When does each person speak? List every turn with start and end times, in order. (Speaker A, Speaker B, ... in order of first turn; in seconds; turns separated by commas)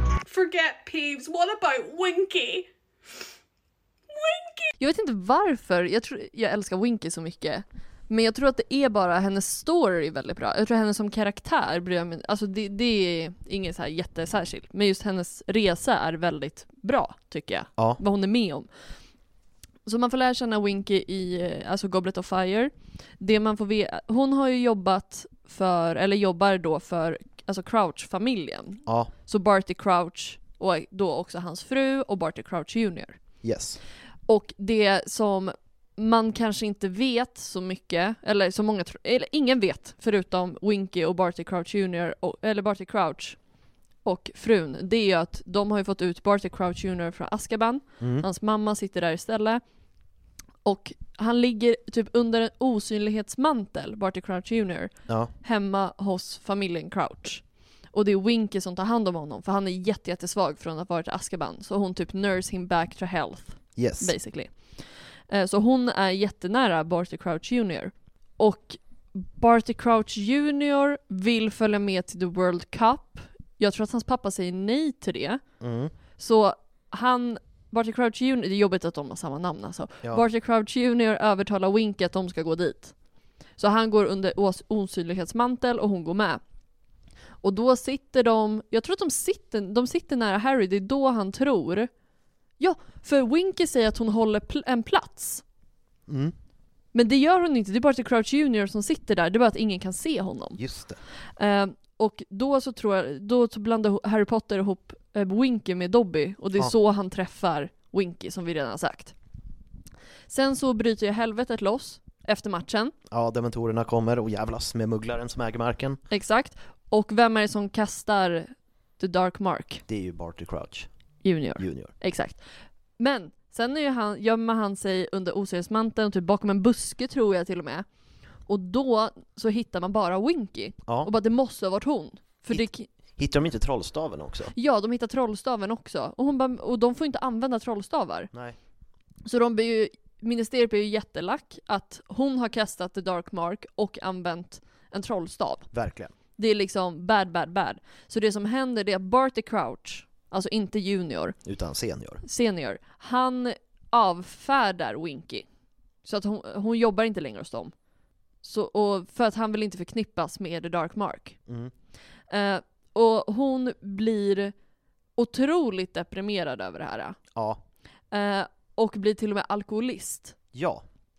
Speaker A: 0.2-2.7, Speaker A: 4.1-4.7, Speaker B: 4.8-18.7, Speaker B: 19.9-33.2, Speaker C: 33.4-33.8, Speaker B: 34.3-43.4, Speaker B: 44.0-49.6, Speaker C: 48.0-48.3, Speaker B: 50.6-64.5, Speaker C: 63.8-64.1, Speaker B: 65.3-75.4, Speaker C: 75.6-75.9, Speaker B: 76.2-82.9, Speaker B: 83.6-86.4, Speaker B: 87.4-91.9, Speaker B: 92.6-95.4, Speaker C: 96.1-96.3, Speaker B: 96.9-100.6, Speaker C: 100.6-101.0, Speaker B: 101.4-109.1, Speaker B: 110.3-112.9, Speaker C: 113.1-116.0, Speaker B: 116.1-119.8, Speaker C: 119.9-120.9, Speaker B: 121.2-122.4, Speaker C: 121.6-121.9, Speaker B: 123.0-127.8, Speaker B: 128.5-132.9, Speaker C: 132.5-134.5, Speaker B: 134.5-138.3, Speaker B: 139.2-145.7, Speaker C: 145.7-146.1, Speaker B: 146.4-151.3, Speaker C: 151.4-152.2, Speaker B: 152.2-155.4, Speaker B: 156.0-157.7, Speaker B: 158.4-161.4, Speaker B: 162.3-164.5, Speaker B: 165.2-167.2, Speaker C: 167.3-167.6, Speaker B: 168.1-170.3, Speaker C: 170.5-170.8